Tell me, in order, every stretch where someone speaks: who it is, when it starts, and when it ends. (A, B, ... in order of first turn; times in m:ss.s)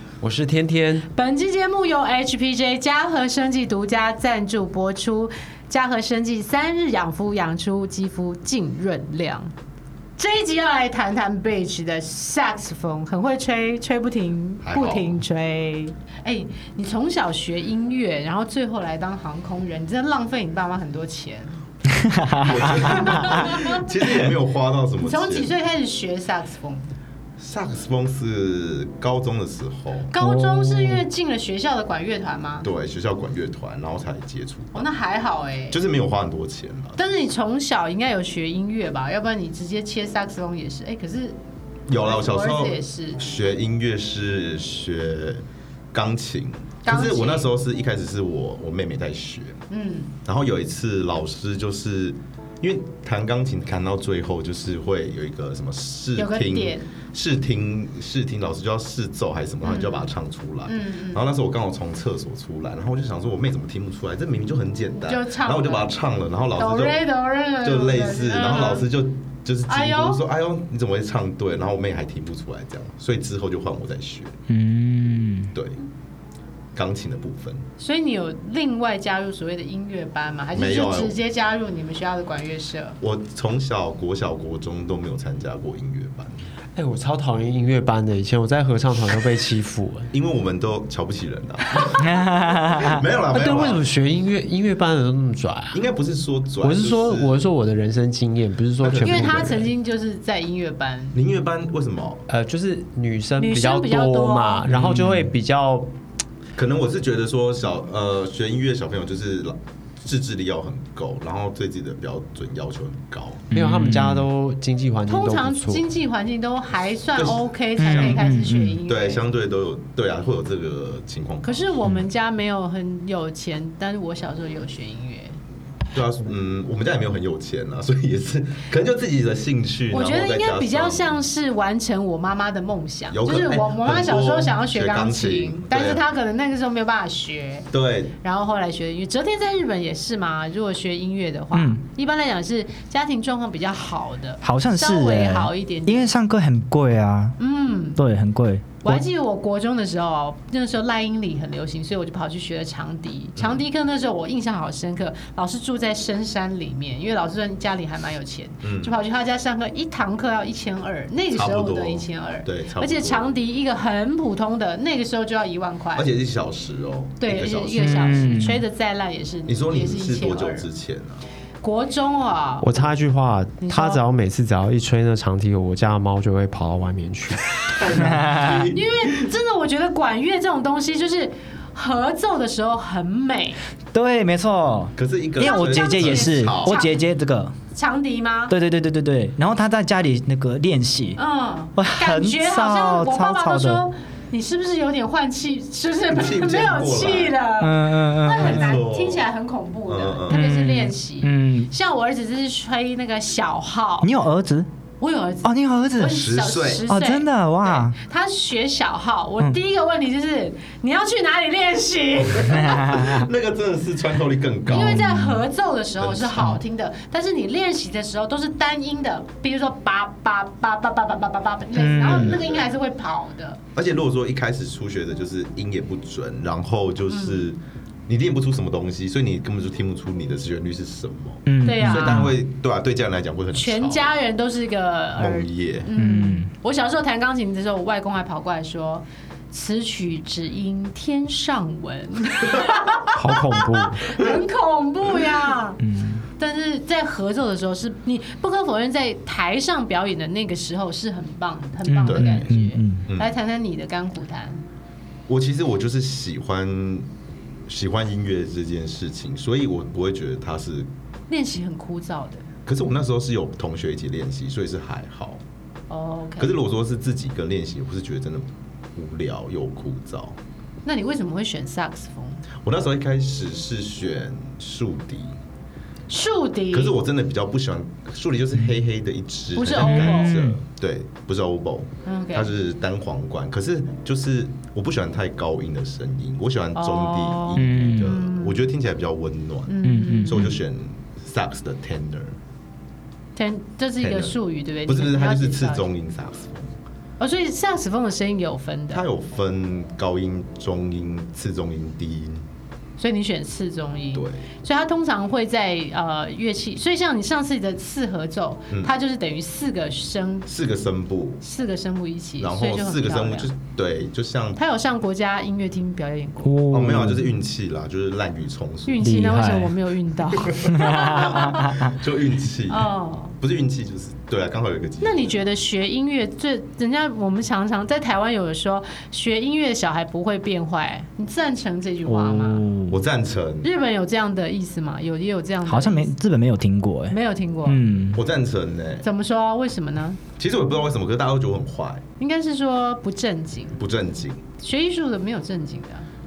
0:00.2-0:01.1 A
0:01.1-0:09.5 B
0:10.2-0:21.6 B
0:14.6-0:15.2 C
0:22.0-0:23.5 D
0:22.4-0:25.5 C
0:22.6-0:23.8 B
0:25.0-0:26.9 B
0:27.4-0:30.1 C
0:30.1-0:32.7 B
0:30.2-0:31.0 D
0:32.6-0:34.9 C
0:34.7-0:35.8 B
0:35.7-0:37.0 C
0:37.0-0:41.4 B
0:41.9-0:49.6 C
0:41.9-0:43.2 B
0:46.8-0:47.5 B
0:49.7-0:50.1 B
0:50.2-1:07.0 C
0:56.2-0:56.9 B
0:59.6-1:00.1 B
1:00.6-1:01.3 B
1:05.0-1:05.9 B
1:06.5-1:08.8 B
1:07.6-1:14.3 C
1:09.7-1:10.2 B
1:14.5-1:15.5 D
1:15.5-1:15.8 C
1:16.7-1:17.6 C
1:17.8-1:23.0 B
1:20.5-1:21.2 C
1:23.0-1:26.3 C
1:26.7-1:30.1 A
1:30.1-1:32.0 C
1:32.0-1:33.0 D
1:32.8-1:33.8 C
1:33.3-1:35.8 A
1:35.7-1:37.4 C
1:36.6-1:39.6 A
1:38.8-1:39.7 C
1:38.9-1:41.2 B
1:41.1-1:42.2 C
1:42.3-1:45.9 A
1:43.4-1:44.7 B
1:44.7-1:45.3 D
1:46.6-1:53.4 C
1:53.5-1:54.3 D
1:53.5-1:55.8 A
1:55.1-1:59.2 B
1:57.2-1:58.2 C
1:57.8-1:58.8 D
1:58.8-2:01.7 C
2:01.4-2:05.4 B
2:05.9-2:11.2 C
2:09.9-2:17.7 B
2:13.1-2:16.0 C
2:17.7-2:18.1 C
2:18.2-2:26.1 B
2:21.5-2:21.8 D
2:24.4-2:27.4 D
2:27.4-2:28.0 B
2:28.0-2:29.0 D
2:28.8-2:46.1 B
2:33.4-2:33.6 C
2:38.6-2:38.9 C
2:41.3-2:43.3 C
2:45.9-2:48.3 C
2:47.2-2:50.7 B
2:47.8-2:48.6 D
2:49.5-2:51.2 C
2:51.6-2:52.7 B
2:52.6-2:57.7 A
2:53.6-2:54.0 B
2:57.7-2:59.2 C
2:58.0-2:58.7 D
2:58.7-3:03.6 B
3:03.9-3:07.5 D
3:05.0-3:06.8 C
3:05.4-3:06.9 B
3:07.7-3:08.6 B
3:08.5-3:11.2 D
3:11.2-3:24.1 B
3:11.8-3:13.8 D
3:16.1-3:17.4 C
3:17.6-3:18.7 D
3:18.3-3:19.2 C
3:19.8-3:20.5 C
3:20.3-3:21.7 D
3:24.0-3:24.7 D
3:25.0-3:32.9 B
3:25.4-3:26.2 D
3:26.1-3:26.8 C
3:26.8-3:28.0 D
3:32.4-3:35.0 C
3:32.5-3:33.2 D
3:34.6-3:43.6 B
3:34.8-3:35.4 D
3:36.0-3:36.6 C
3:41.7-3:42.3 D
3:42.0-3:42.7 C
3:43.7-3:54.1 C
3:47.1-3:47.5 B
3:51.4-3:52.3 D
3:51.6-3:52.3 B
3:53.5-4:14.6 B
3:55.2-3:55.9 C
3:55.9-3:56.5 D
4:03.1-4:04.1 A
4:05.8-4:06.2 D
4:11.9-4:13.0 D
4:12.0-4:12.5 C
4:15.3-4:17.1 C
4:17.7-4:20.9 C
4:21.3-4:22.5 B
4:22.6-4:25.4 C
4:25.9-4:26.6 B
4:26.4-4:30.4 C
4:30.8-4:32.4 B
4:32.6-4:35.4 C
4:36.1-4:37.0 B
4:36.7-4:52.4 C
4:39.6-4:40.4 B
4:39.8-4:40.6 D
4:42.0-4:42.5 B
4:46.8-4:48.6 B
4:47.5-4:48.2 D
4:49.7-4:50.5 B
4:49.8-4:50.5 D
4:53.3-4:55.9 B
4:54.0-4:56.7 C
4:57.2-4:59.0 B
4:58.9-5:02.4 C
5:03.0-5:10.5 B
5:04.1-5:04.4 C
5:10.5-5:11.4 C
5:11.4-5:13.5 B
5:12.4-5:14.6 C
5:14.6-5:16.6 B
5:16.4-5:17.3 D
5:16.7-5:19.1 C
5:18.8-5:21.8 B
5:19.0-5:19.7 D
5:20.7-5:21.7 D
5:20.8-5:25.4 C
5:22.7-5:23.3 B
5:25.0-5:32.6 B
5:32.0-5:33.0 D
5:32.9-5:33.7 C
5:33.6-5:36.1 B
5:35.6-5:38.2 D
5:37.1-5:37.8 B
5:38.1-5:39.0 C
5:39.0-5:40.2 B
5:40.4-5:42.0 C
5:42.2-5:43.8 B
5:43.8-5:44.4 C
5:44.6-5:46.1 B